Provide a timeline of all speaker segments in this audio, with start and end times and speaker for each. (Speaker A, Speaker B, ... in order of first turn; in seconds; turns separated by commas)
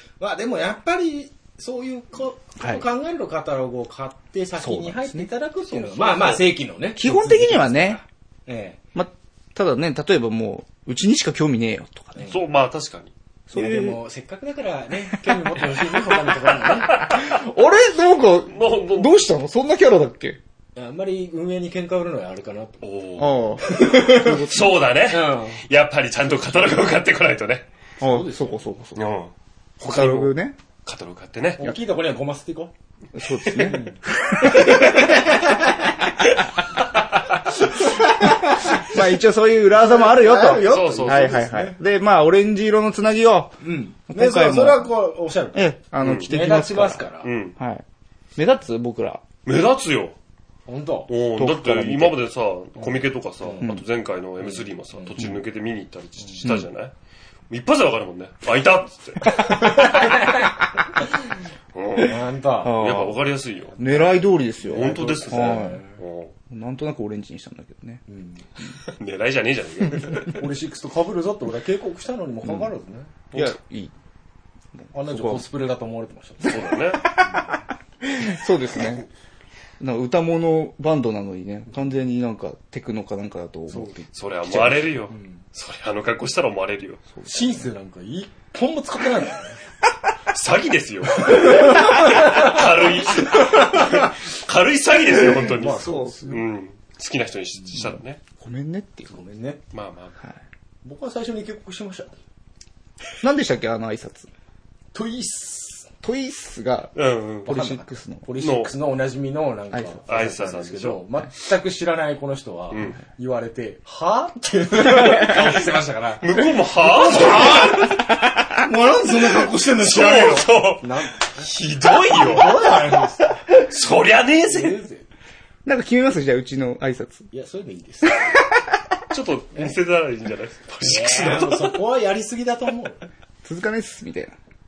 Speaker A: 0.2-8.8, Speaker B: 2.6-2.8, Speaker B: 4.6-5.3, Speaker C: 5.7-6.4, Speaker B: 6.9-8.0, Speaker B: 8.9-12.3, Speaker A: 12.2-12.4, Speaker C: 12.2-13.1, Speaker B: 13.5-14.0, Speaker A: 13.5-17.1, Speaker B: 17.0-20.4, Speaker C: 18.5-19.3, Speaker A: 20.8-22.8, Speaker C: 22.8-27.7, Speaker B: 23.2-24.8, Speaker A: 23.8-24.2, Speaker A: 25.1-25.6, Speaker B: 28.0-29.1, Speaker A: 28.0-28.6, Speaker C: 28.9-31.6, Speaker B: 29.8-30.6, Speaker A: 31.6-32.7, Speaker B: 33.1-33.9, Speaker A: 33.6-34.0, Speaker C: 34.4-34.8, Speaker A: 34.6-35.6, Speaker A: 37.9-38.9, Speaker B: 38.7-44.9, Speaker A: 39.8-41.8, Speaker C: 40.6-41.5, Speaker A: 43.6-47.3, Speaker B: 45.5-47.8, Speaker C: 46.0-46.3, Speaker C: 47.2-47.5, Speaker B: 48.4-49.2, Speaker C: 49.4-50.1, Speaker A: 50.7-51.1, Speaker C: 51.1-56.9, Speaker B: 51.4-52.2, Speaker A: 52.8-53.7, Speaker A: 54.4-55.3, Speaker C: 57.5-60.3, Speaker C: 61.7-66.3, Speaker A: 62.0-62.8, Speaker B: 62.6-63.2, Speaker B: 63.8-65.8, Speaker A: 64.6-66.0, Speaker B: 66.5-68.0, Speaker A: 68.1-68.4, Speaker C: 68.9-70.4, Speaker A: 70.3-73.1, Speaker B: 73.3-73.9, Speaker B: 74.8-75.5, Speaker A: 74.9-76.7, Speaker C: 76.4-77.1, Speaker B: 76.5-79.0, Speaker A: 77.2-77.5, Speaker B: 79.8-84.0, Speaker A: 83.7-85.4, Speaker C: 84.1-87.0, Speaker B: 87.1-87.6, Speaker A: 87.2-89.6, Speaker C: 90.3-98.2, Speaker A: 91.4-92.6, Speaker A: 95.3-96.5, Speaker B: 95.6-96.3, Speaker B: 98.4-99.2, Speaker A: 99.1-99.6, Speaker C: 99.7-100.2, Speaker A: 100.8-102.2, Speaker B: 103.2-104.3, Speaker A: 104.9-105.9, Speaker B: 106.0-106.9, Speaker C: 106.9-107.5, Speaker B: 107.4-108.2, Speaker A: 107.5-116.2, Speaker C: 108.4-108.7, Speaker B: 109.7-110.0, Speaker C: 110.1-111.0, Speaker C: 112.7-113.0, Speaker C: 115.1-115.6, Speaker C: 116.2-118.0, Speaker A: 116.8-123.5, Speaker C: 119.6-122.7, Speaker C: 123.5-124.8, Speaker A: 124.4-125.0, Speaker B: 125.6-127.3, Speaker A: 127.3-128.3, Speaker C: 129.1-131.8, Speaker A: 130.8-133.1, Speaker B: 133.4-134.3